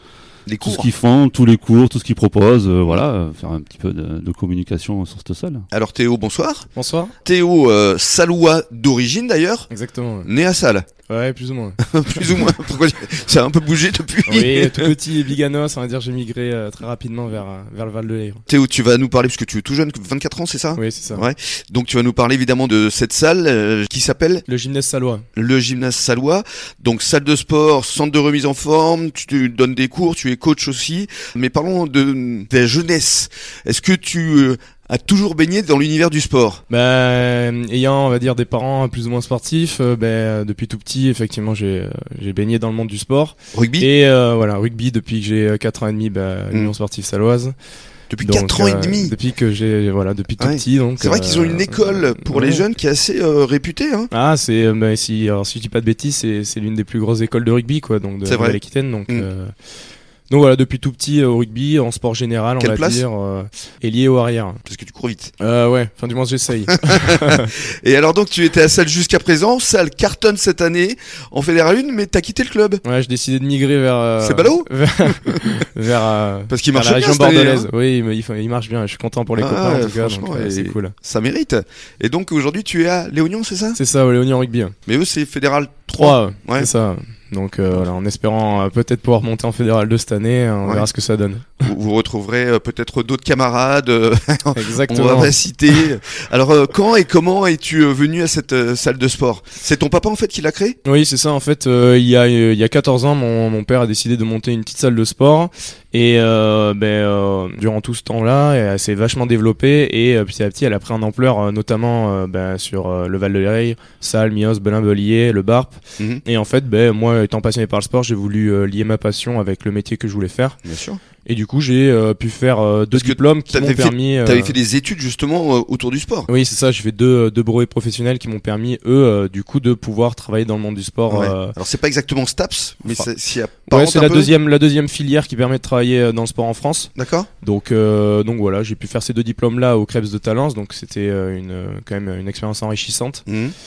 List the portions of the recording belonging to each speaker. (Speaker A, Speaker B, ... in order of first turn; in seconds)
Speaker A: 0.5-0.9, 5.7-9.7, 10.2-10.9, 11.8-14.9, 18.5-24.4, 25.4-36.6, 43.5-43.9, 48.1-49.1, 50.4-54.1, 58.2-59.3, 62.6-63.0, 64.7-65.3, 66.7-72.8, 74.2-75.6, 76.5-77.7, 79.4-83.8, 84.9-86.7, 91.6-100.8, 120.7-121.0, 122.9-126.3, 131.1-134.3, 137.0-137.3, 143.3-143.5
Speaker B: 0.6-5.7
Speaker C: 6.7-7.2, 9.7-10.3, 11.1-12.5, 14.3-18.4, 20.8-21.2, 24.5-25.3, 36.7-47.5, 48.2-52.7, 54.1-59.5, 60.3-64.6, 65.4-67.5, 72.8-81.0, 83.8-84.8, 86.0-91.7, 94.5-95.8, 100.8-120.6, 121.2-124.6, 126.3-131.6, 133.7-143.2